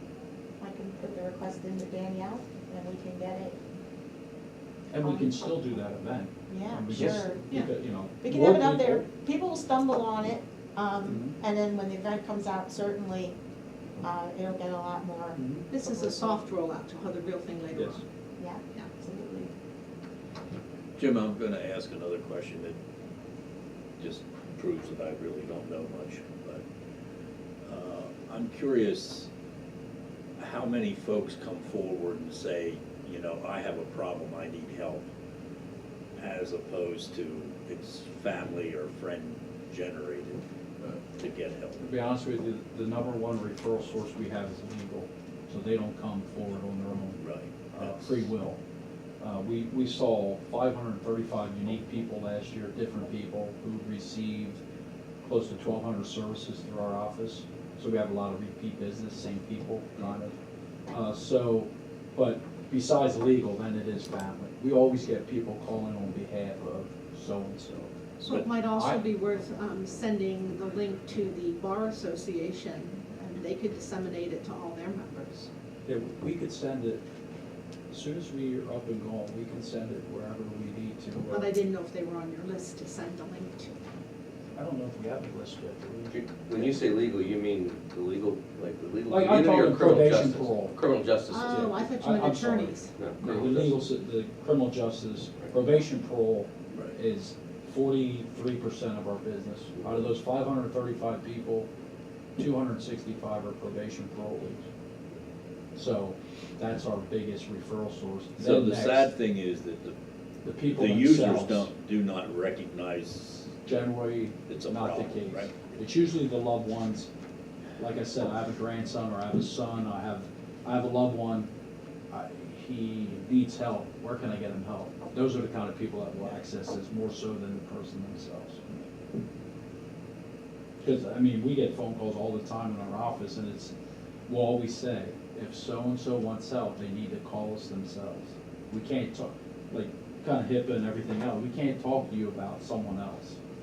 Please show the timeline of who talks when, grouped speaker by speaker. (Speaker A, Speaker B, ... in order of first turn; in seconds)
Speaker A: 0.6-3.5, 5.0-5.3, 6.5-7.4, 8.2-13.3, 14.0-15.4, 18.4-19.5
Speaker B: 4.9-9.1, 11.1-11.4, 15.3-15.7, 17.7-18.0, 41.8-47.2, 47.7-48.6, 49.2-54.6, 55.2-60.3, 60.9-67.9, 68.7-69.0, 75.8-77.0, 77.9-81.5, 84.5-86.7, 89.1-90.8, 91.5-101.7, 102.4-104.7, 105.7-109.1, 110.4-111.7, 113.6-117.1, 117.8-121.5, 122.1-128.8, 130.8-133.7, 134.3-143.4
Speaker C: 15.7-18.0, 68.2-75.5, 81.3-83.7, 91.3-92.9
Speaker D: 21.0-22.8, 24.0-26.6, 27.6-29.3, 30.4-35.0, 36.1-41.8, 47.2-48.0, 68.2-68.5, 108.4-109.9, 110.7-113.5, 114.5-115.7
Speaker E: 86.1-91.8, 92.9-93.8